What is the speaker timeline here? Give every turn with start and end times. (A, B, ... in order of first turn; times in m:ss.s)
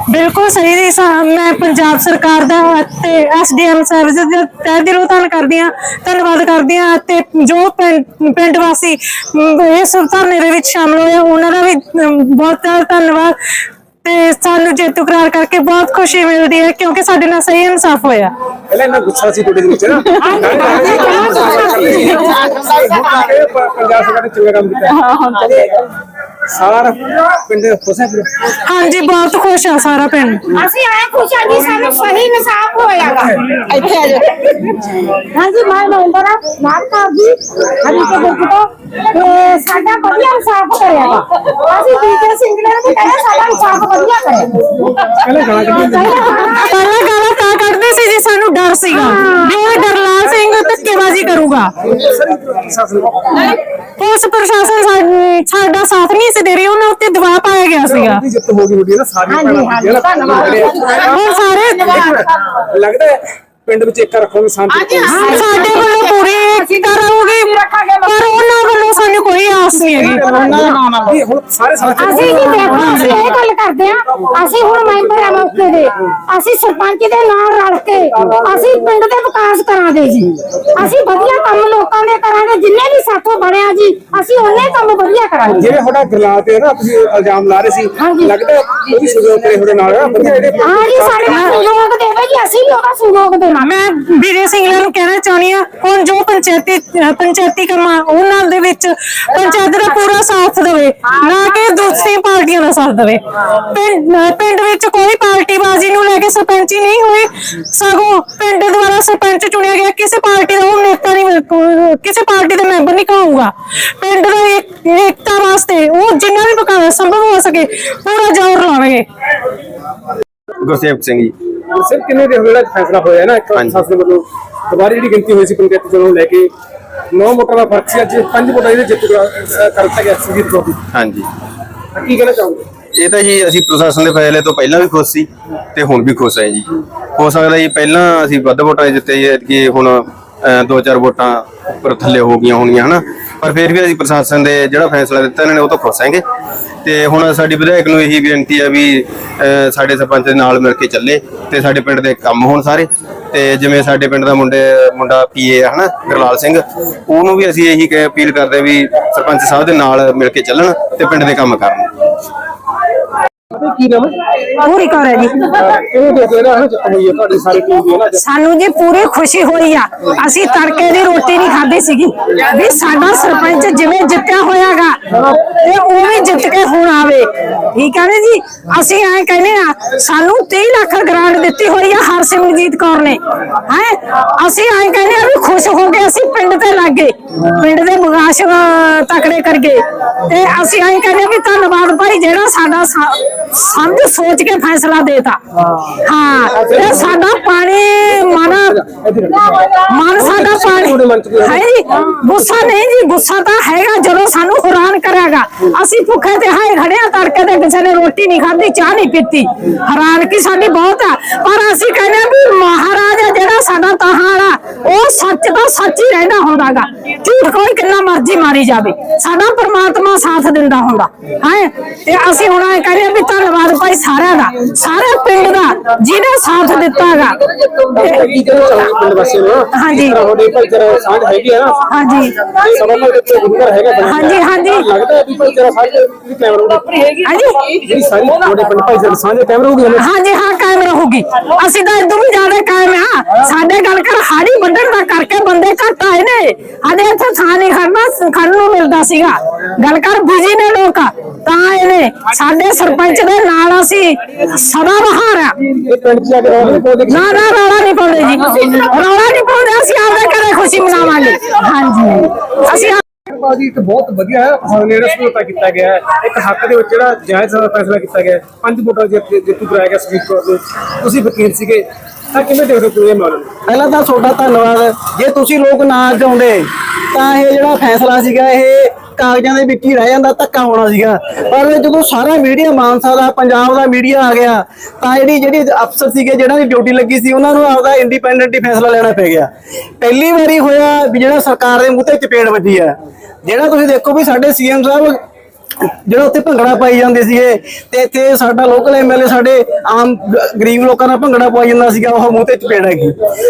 0:00.1-0:13.3 A
0:14.0-0:18.3 A
0:18.7-0:25.5 B
0:20.2-0:22.2 C
0:26.5-0:28.3 B
0:28.6-0:30.6 A
0:30.5-0:34.6 C
0:35.2-0:44.5 C
0:44.7-0:46.3 B
0:45.8-0:46.5 C
0:46.4-0:51.7 A
0:48.9-0:49.5 C
0:50.2-0:53.5 B
0:54.0-0:58.2 A
0:57.8-1:01.2 B
0:59.3-1:00.3 C
1:01.0-1:02.0 A
1:01.8-1:05.4 B
1:05.1-1:10.2 A
1:09.9-1:13.4 B
1:12.0-1:25.7 C
1:12.8-1:13.2 A
1:14.4-1:15.6 B
1:18.1-1:18.7 B
1:25.6-1:31.5 B
1:28.0-1:28.3 C
1:30.6-1:33.7 C
1:33.6-1:59.0 A
2:00.6-2:01.3 D
2:01.7-2:06.5 B
2:03.5-2:03.8 D
2:07.1-2:10.8 B
2:10.9-2:11.3 D
2:11.9-2:12.6 B
2:12.9-2:16.6 D
2:17.2-2:26.2 D
2:26.8-2:41.9 D
2:43.5-2:44.2 B
2:44.6-2:45.4 A
2:45.4-2:48.2 B
2:48.2-3:15.4 A
2:55.1-2:55.4 B
3:16.0-3:18.7 A
3:16.5-3:17.2 B
3:18.4-3:21.6 B
3:19.7-3:47.4 A
3:47.8-3:51.8 B
3:49.7-3:50.2 A
3:51.9-3:52.3 A
3:52.4-3:57.1 B
3:54.0-3:54.8 A
3:57.2-3:57.7 A
3:57.7-4:00.1 B
4:00.0-4:15.5 A
4:15.7-4:17.2 B
4:17.1-4:23.0 A
4:23.2-4:33.5 B
4:33.7-4:49.5 E
4:50.0-4:52.9 E
4:53.4-4:55.2 E
4:55.8-5:03.1 E